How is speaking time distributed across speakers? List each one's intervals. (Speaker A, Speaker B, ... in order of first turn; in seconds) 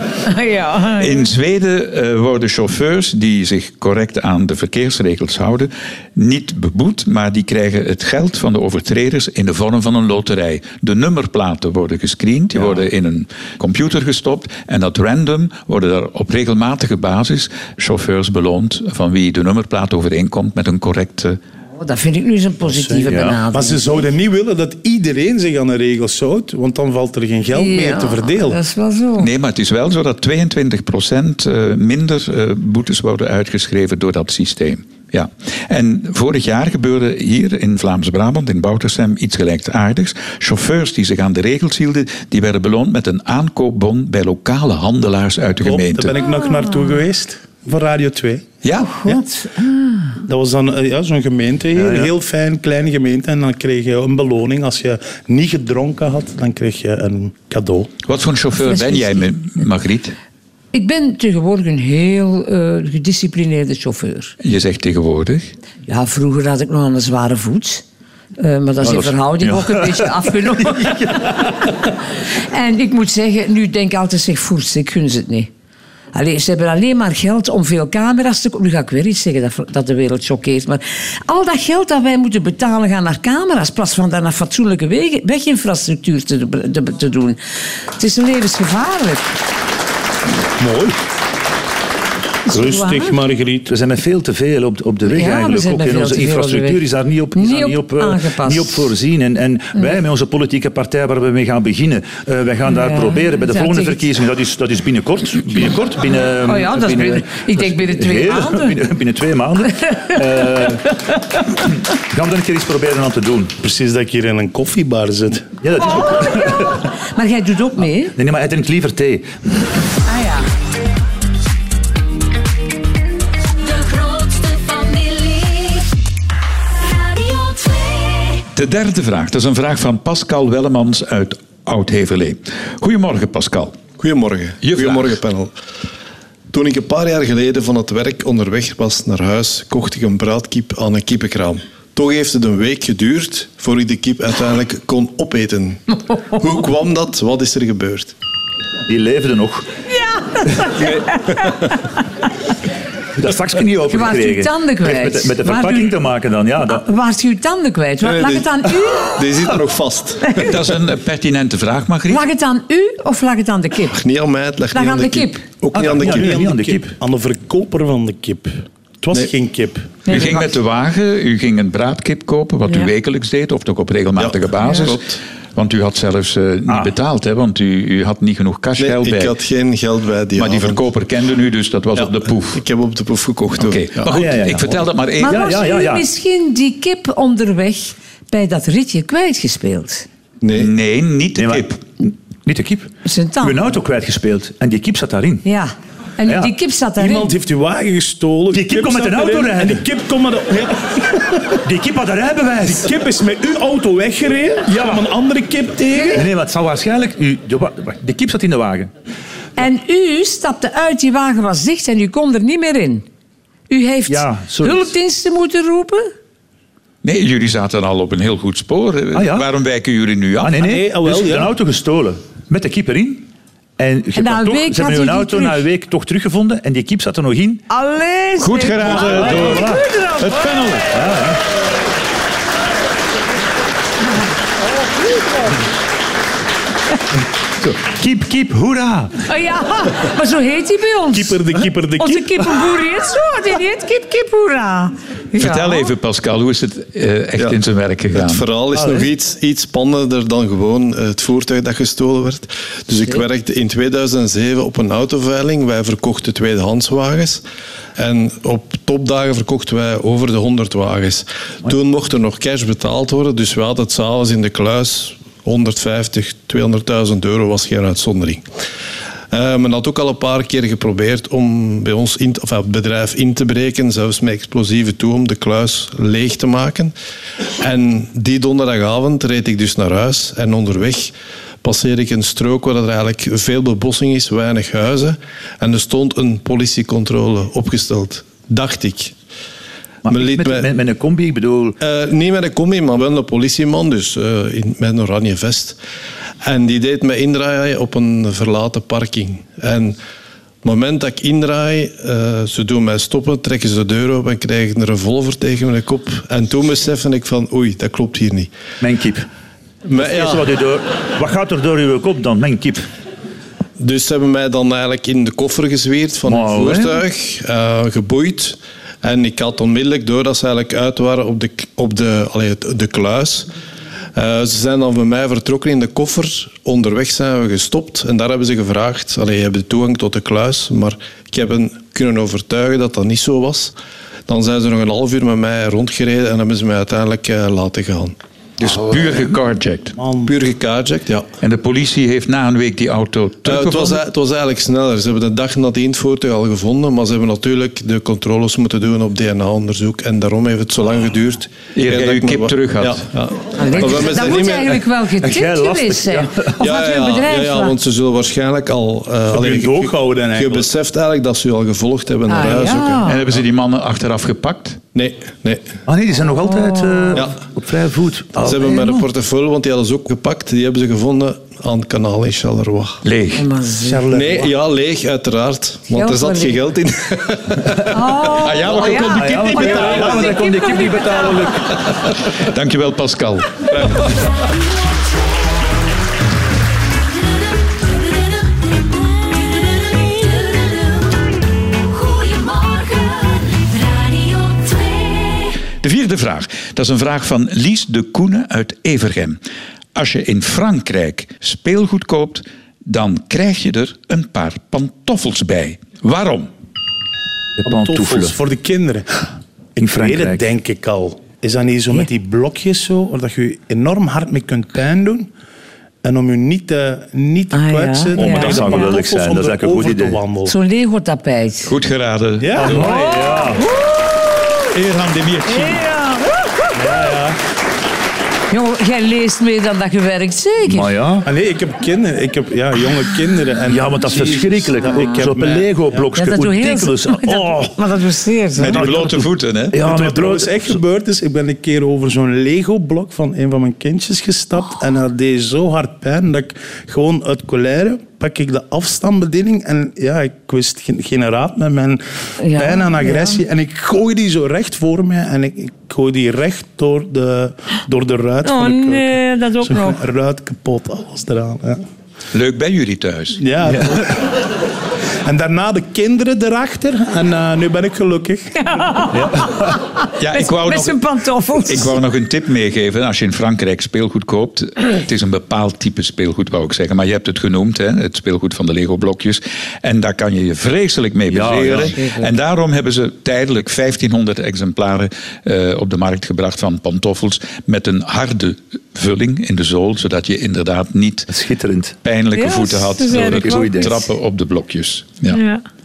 Speaker A: 0.2-1.2, 21.8-24.1, 27.5-29.3, 46.2-46.9, 48.9-50.1, 58.8-59.2, 60.7-64.3, 65.9-67.8, 68.4-71.9, 72.5-75.5, 76.1-89.3, 92.5-93.2, 95.1-96.8, 97.3-98.9, 102.7-104.1, 106.2-108.8, 109.8-110.6, 115.8-118.2, 120.1-120.4, 149.9-152.0, 153.9-156.0, 156.7-159.3, 162.1-164.0, 164.7-165.4, 170.1-170.5, 185.2-190.1, 193.1-193.6, 195.4-197.3, 209.6-213.1, 213.7-216.1, 224.2-225.6, 227.7-230.7, 239.3-241.4, 242.0-245.9, 353.6-357.8, 362.3-363.2, 366.5-367.2, 373.4-374.0, 375.9-376.6, 377.9-381.5, 417.5-418.9, 420.5-421.7, 422.9-424.0, 425.5-426.8, 428.5-430.9, 436.2-438.8, 452.4-453.4, 458.4-460.0, 468.6-472.0, 481.9-482.3, 492.4-494.0, 495.3-495.6
Speaker B: 1.0-21.4, 29.2-46.1, 48.6-49.0, 58.0-60.1, 64.4-65.5, 128.5-133.8, 134.6-135.2, 160.4-162.3, 170.1-179.3, 180.4-182.6, 183.6-185.5, 190.5-191.8, 217.0-220.6, 228.4-230.9, 245.3-248.4, 338.6-340.0, 341.4-344.0, 351.7-353.1, 363.1-364.8, 373.0-373.5, 378.4-379.7, 382.4-383.8, 395.8-399.4, 399.9-406.5, 421.6-423.1, 424.7-425.9, 438.6-439.8, 462.3-463.4, 470.2-471.0, 471.6-491.3, 492.0-495.4
Speaker C: 22.6-28.6, 45.6-48.5, 50.2-57.9, 90.6-91.0, 92.5-93.7, 113.6-115.5, 166.0-170.0, 197.0-201.6, 202.7-206.3, 220.6-221.6, 241.1-242.5, 340.0-340.3, 359.3-360.7, 373.8-374.5, 379.4-380.3, 407.7-415.3, 416.0-420.5, 422.4-422.9, 426.8-427.4, 431.2-436.1, 439.7-452.0, 452.5-461.8, 463.4-464.3, 465.2-468.7
Speaker D: 23.1-23.4, 51.8-52.1, 68.8-71.4, 93.7-113.5, 115.6-116.8, 118.1-119.4, 148.9-149.7, 150.6-150.9, 153.2-156.8, 165.7-166.9, 176.7-176.9, 184.1-186.1, 191.4-195.4, 196.3-196.5, 198.5-199.8, 201.6-202.9, 204.7-205.1, 206.1-208.9, 214.1-214.9, 219.1-219.5, 220.4-227.6, 228.8-229.8, 230.9-231.4, 237.6-239.2, 290.1-291.8, 308.8-309.3, 309.9-312.9, 316.2-317.0, 355.2-356.5, 365.9-369.1, 378.8-381.8, 407.6-408.4, 409.8-410.5, 418.2-420.2, 422.6-423.6, 430.7-431.3, 433.7-437.8, 438.6-440.8, 463.7-464.0, 469.1-469.8, 481.3-482.0, 491.3-492.0, 493.1-494.0
Speaker E: 123.6-125.9, 126.8-128.5, 384.1-385.8, 387.0-395.6
Speaker F: 134.0-135.5, 136.5-145.8, 146.3-148.1, 158.0-158.5, 159.0-160.6, 163.9-166.4, 174.2-175.2, 178.8-180.8, 182.0-184.2, 190.4-190.7, 248.1-257.4, 258.0-268.4, 269.3-276.9, 277.6-289.1, 290.1-290.7, 291.8-295.8, 296.4-300.0, 300.6-308.5, 309.9-310.5, 313.8-323.5, 324.1-333.7, 334.3-338.1, 340.3-341.3, 343.5-354.8, 356.6-363.0, 364.9-365.7, 368.4-373.0, 374.1-377.9, 383.7-384.1